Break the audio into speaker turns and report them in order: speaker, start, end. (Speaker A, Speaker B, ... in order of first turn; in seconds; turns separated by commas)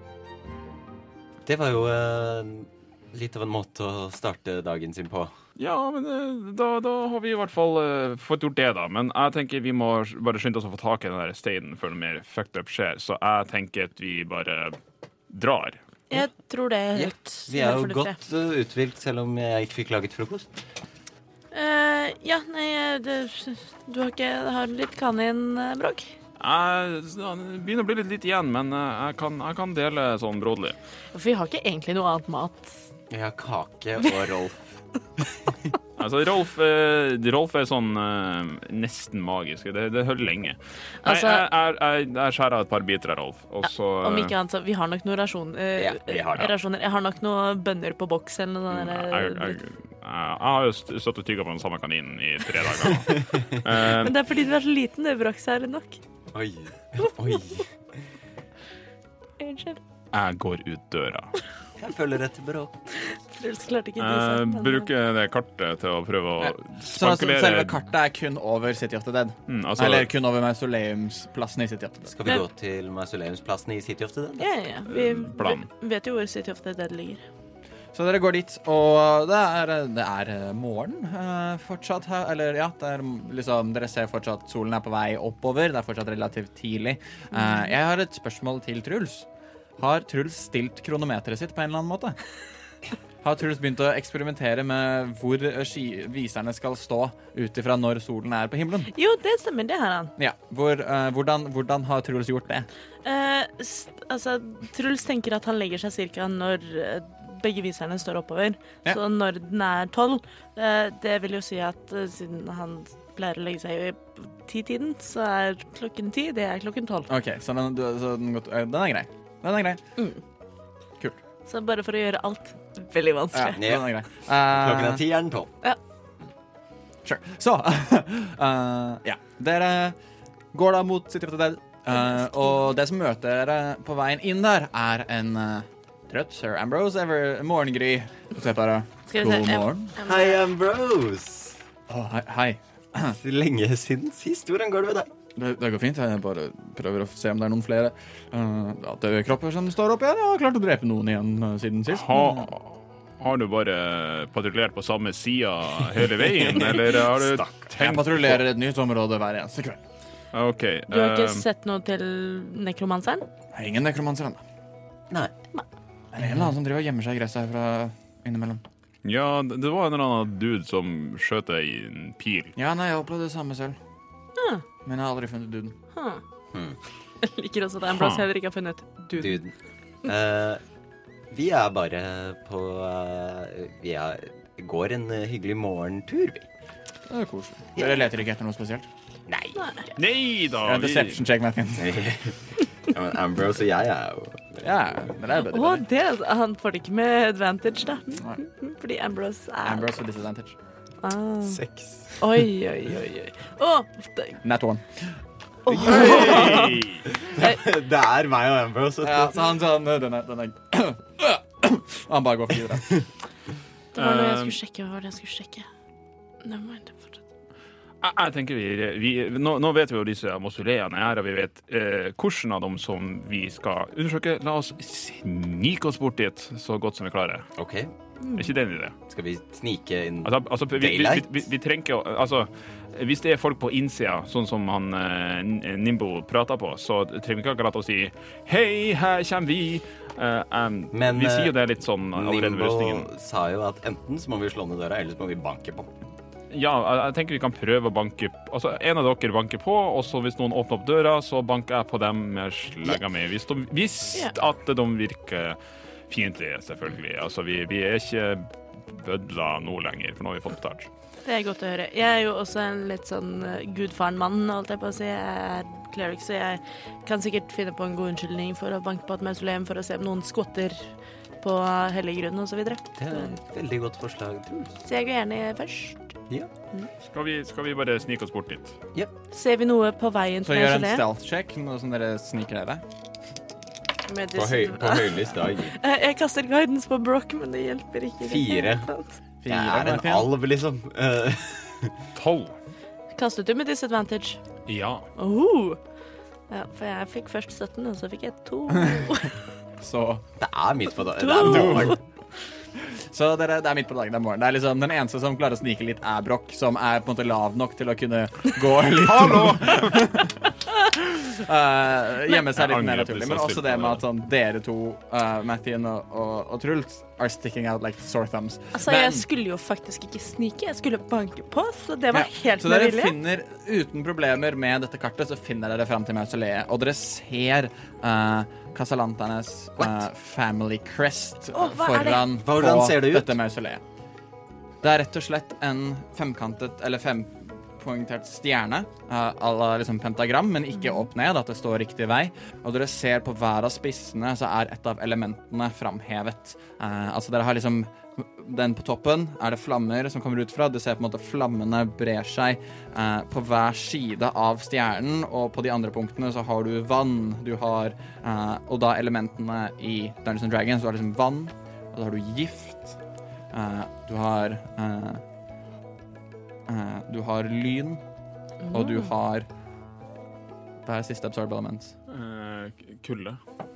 Speaker A: 1.4-5.3, Speaker B: 5.6-14.8, Speaker B: 15.3-15.8, Speaker C: 16.1-18.2, Speaker A: 16.9-20.6, Speaker C: 21.5-26.1, Speaker B: 26.4-30.8, Speaker C: 31.1-32.8, Speaker A: 33.1-34.6, Speaker B: 36.0-44.3, Speaker C: 41.0-41.5, Speaker C: 44.0-49.6, Speaker A: 45.8-46.6, Speaker B: 48.7-54.2, Speaker A: 53.1-53.5, Speaker C: 53.9-56.0, Speaker A: 56.3-57.8, Speaker C: 59.4-59.8, Speaker B: 60.1-61.4, Speaker A: 61.8-62.8, Speaker C: 63.0-64.9, Speaker B: 64.0-67.8, Speaker D: 66.4-72.1, Speaker B: 69.5-70.1, Speaker A: 72.1-74.5, Speaker C: 74.4-77.2, Speaker B: 74.9-75.7, Speaker D: 77.9-89.3, Speaker C: 87.3-87.7, Speaker D: 89.8-92.2, Speaker D: 93.2-98.9, Speaker C: 98.9-100.1, Speaker D: 100.2-102.7, Speaker C: 103.0-117.1, Speaker D: 117.1-119.8, Speaker C: 121.5-123.6, Speaker D: 123.3-125.0, Speaker A: 123.6-123.9, Speaker A: 124.5-125.5, Speaker D: 127.0-130.0, Speaker D: 130.5-140.0, Speaker C: 132.0-132.6, Speaker C: 139.1-140.4, Speaker A: 140.0-141.6, Speaker D: 141.9-143.2, Speaker A: 143.1-145.1, Speaker D: 145.4-152.5, Speaker B: 151.9-158.4, Speaker A: 156.4-156.7, Speaker D: 157.8-159.8, Speaker B: 160.3-161.4, Speaker C: 160.9-163.3, Speaker D: 163.5-164.4, Speaker D: 166.1-168.6, Speaker B: 169.0-172.5, Speaker D: 172.6-173.8, Speaker C: 174.4-174.6, Speaker D: 174.8-175.8, Speaker C: 175.9-176.2, Speaker A: 176.5-176.8, Speaker C: 177.2-179.4, Speaker B: 177.9-178.2, Speaker A: 179.2-180.6, Speaker A: 181.3-186.5, Speaker D: 187.1-188.9, Speaker A: 189.3-189.6, Speaker C: 189.6-189.9, Speaker B: 190.0-191.2, Speaker D: 190.6-192.0, Speaker A: 191.8-194.7, Speaker D: 194.6-195.8, Speaker C: 195.4-200.0, Speaker D: 199.6-200.6, Speaker C: 201.0-201.6, Speaker A: 201.4-202.2, Speaker C: 202.2-204.4, Speaker D: 204.4-205.2, Speaker C: 205.7-206.8, Speaker D: 205.7-206.8, Speaker A: 205.7-209.4, Speaker B: 205.9-207.0, Speaker D: 209.0-213.0, Speaker C: 213.9-215.7, Speaker B: 214.0-214.6, Speaker C: 216.4-217.2, Speaker B: 218.0-227.5, Speaker A: 227.6-227.9, Speaker C: 228.2-228.5, Speaker B: 228.3-228.9, Speaker A: 229.1-231.4, Speaker B: 230.2-243.1, Speaker A: 240.9-241.6, Speaker A: 242.1-245.9, Speaker B: 246.5-255.6, Speaker B: 256.1-260.9, Speaker C: 261.2-270.9, Speaker C: 271.4-273.3, Speaker A: 273.0-274.8, Speaker C: 274.8-276.1, Speaker B: 277.1-278.8, Speaker C: 279.3-281.1, Speaker D: 280.4-282.8, Speaker C: 284.1-289.2, Speaker A: 284.3-285.8, Speaker A: 288.2-288.9, Speaker D: 289.4-290.3, Speaker A: 289.5-292.0, Speaker B: 292.1-292.6, Speaker C: 293.1-294.4, Speaker B: 294.7-295.1, Speaker C: 295.2-295.8, Speaker C: 296.5-299.4, Speaker D: 298.7-299.3, Speaker D: 299.8-300.2, Speaker A: 300.4-302.0, Speaker C: 301.1-302.0, Speaker D: 301.4-302.0, Speaker D: 302.8-319.3, Speaker B: 308.9-310.0, Speaker B: 312.3-314.0, Speaker C: 318.7-323.1, Speaker D: 322.1-333.8, Speaker C: 331.5-332.3, Speaker A: 332.3-333.4, Speaker D: 334.8-363.0, Speaker D: 363.5-365.2, Speaker D: 366.7-368.0, Speaker C: 368.6-369.1, Speaker D: 368.7-369.5, Speaker D: 370.9-371.9, Speaker B: 372.1-373.4